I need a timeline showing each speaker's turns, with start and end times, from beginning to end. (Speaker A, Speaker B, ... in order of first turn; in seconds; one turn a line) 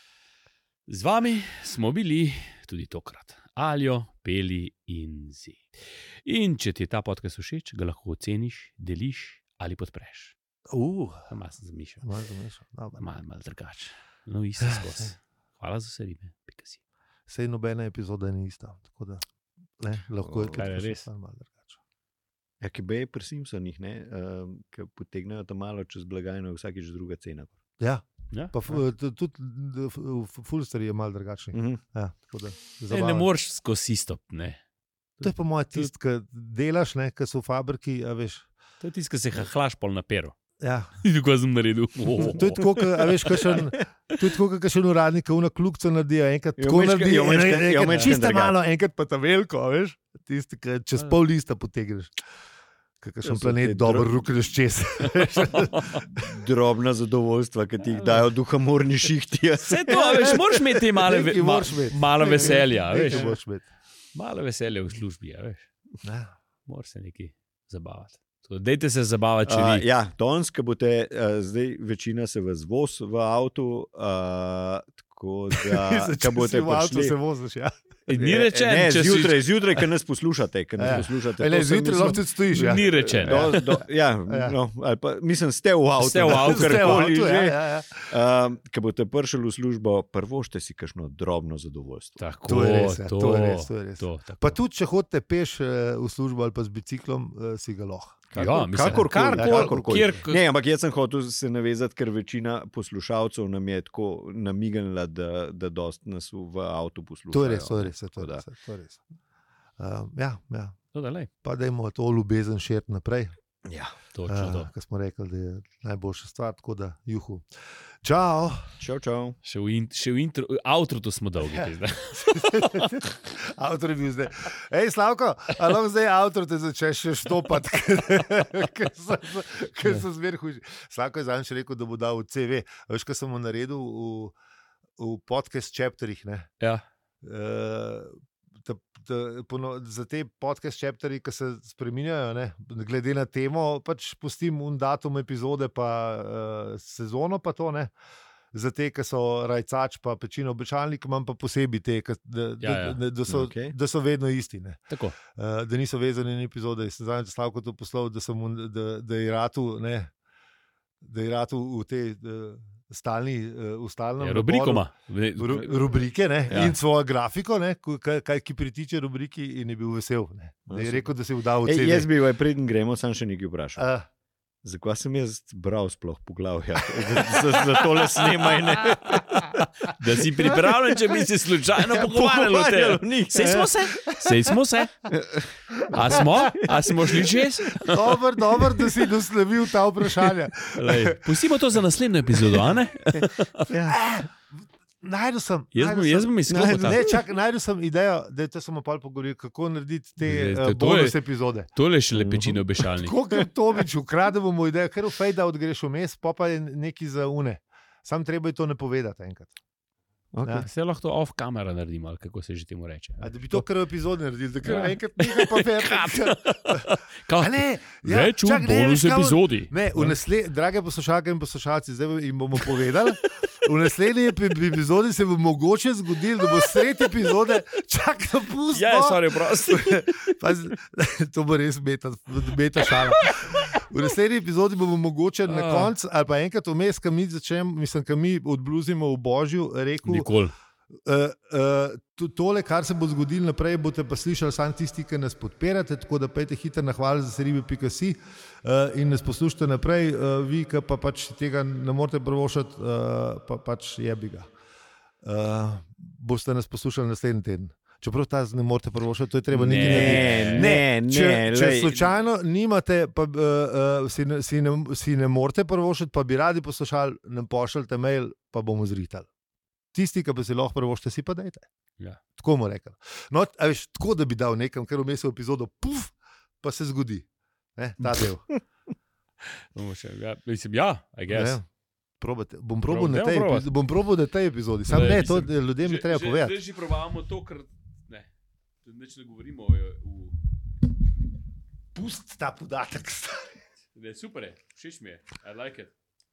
Speaker A: 0.9-5.7
Speaker A: 6.2-10.3
Speaker B: 10.7-11.3
Speaker A: 11.3-12.0
Speaker B: 12.0-13.1
Speaker A: 13.0-16.8
Speaker B: 14.7-15.0
Speaker B: 17.3-19.2
Speaker B: 19.8-21.8
Speaker C: 20.2-20.7
Speaker A: 20.5-21.1
Speaker C: 22.6-27.6
Speaker B: 27.8-33.3
Speaker C: 31.5-31.8
Speaker A: 32.9-34.6
Speaker A: 35.2-35.9
Speaker B: 35.2-38.5
Speaker A: 38.8-40.4
Speaker B: 40.6-40.9
Speaker A: 41.0-42.6
Speaker B: 42.3-52.1
Speaker C: 42.5-43.8
Speaker C: 46.6-48.5
Speaker A: 47.9-48.1
Speaker B: 53.0-56.3
Speaker C: 53.2-54.2
Speaker A: 55.5-56.0
Speaker C: 56.2-60.8
Speaker A: 59.6-63.3
Speaker B: 59.9-60.4
Speaker B: 61.0-63.7
Speaker C: 62.3-63.3
Speaker A: 64.1-65.7
Speaker B: 66.0-66.3
Speaker A: 66.7-69.8
Speaker C: 69.5-77.2
Speaker B: 75.5-77.7
Speaker A: 78.1-79.5
Speaker C: 78.2-92.2
Speaker B: 80.8-83.7
Speaker A: 82.5-83.8
Speaker B: 84.3-84.6
Speaker A: 86.0-87.1
Speaker B: 86.2-88.0
Speaker A: 92.2-94.5
Speaker B: 92.5-98.3
Speaker C: 98.3-108.4
Speaker A: 98.3-100.4
Speaker B: 98.8-100.2
Speaker B: 107.3-109.0
Speaker B: 109.8-110.8
Speaker A: 110.9-111.3
Speaker B: 111.4-113.3
Speaker C: 113.7-113.9
Speaker A: 114.1-114.7
Speaker B: 114.3-117.4
Speaker B: 118.0-118.6
Speaker C: 118.8-119.4
Speaker A: 119.4-122.9
Speaker B: 121.5-134.3
Speaker B: 135.0-136.5
Speaker B: 137.2-147.9
Speaker B: 148.5-160.1
Speaker A: 152.6-153.0
Speaker C: 153.3-153.7
Speaker A: 154.9-155.2
Speaker B: 161.0-172.1
Speaker A: 164.2-165.9
Speaker C: 166.5-166.7
Speaker C: 170.7-171.0
Speaker C: 171.6-173.8
Speaker B: 173.8-174.1
Speaker C: 174.6-183.7
Speaker B: 177.0-179.2
Speaker A: 179.3-184.9
Speaker B: 183.4-184.5
Speaker C: 185.1-187.3
Speaker A: 185.9-188.2
Speaker B: 185.9-186.5
Speaker B: 187.8-191.4
Speaker A: 190.7-193.7
Speaker B: 192.5-201.7
Speaker C: 193.7-193.9
Speaker A: 195.7-197.0
Speaker C: 196.5-197.2
Speaker A: 200.2-201.2
Speaker A: 201.7-203.2
Speaker C: 202.1-202.7
Speaker B: 202.9-209.5
Speaker C: 210.3-210.7
Speaker A: 210.6-213.6
Speaker B: 213.2-240.3
Speaker A: 214.6-220.2
Speaker A: 228.7-230.4
Speaker A: 232.8-233.8
Speaker A: 235.4-235.9
Speaker A: 240.0-240.5
Speaker B: 241.0-254.5
Speaker B: 255.2-269.3
Speaker C: 259.5-262.1
Speaker A: 259.6-260.7
Speaker B: 269.9-271.7
Speaker B: 272.4-278.5
Speaker A: 279.7-281.6
Speaker B: 281.3-281.6
Speaker B: 282.2-286.6
Speaker A: 282.9-283.7
Speaker A: 284.9-288.3
Speaker A: 288.8-290.4
Speaker B: 291.9-293.6
Speaker A: 293.9-295.9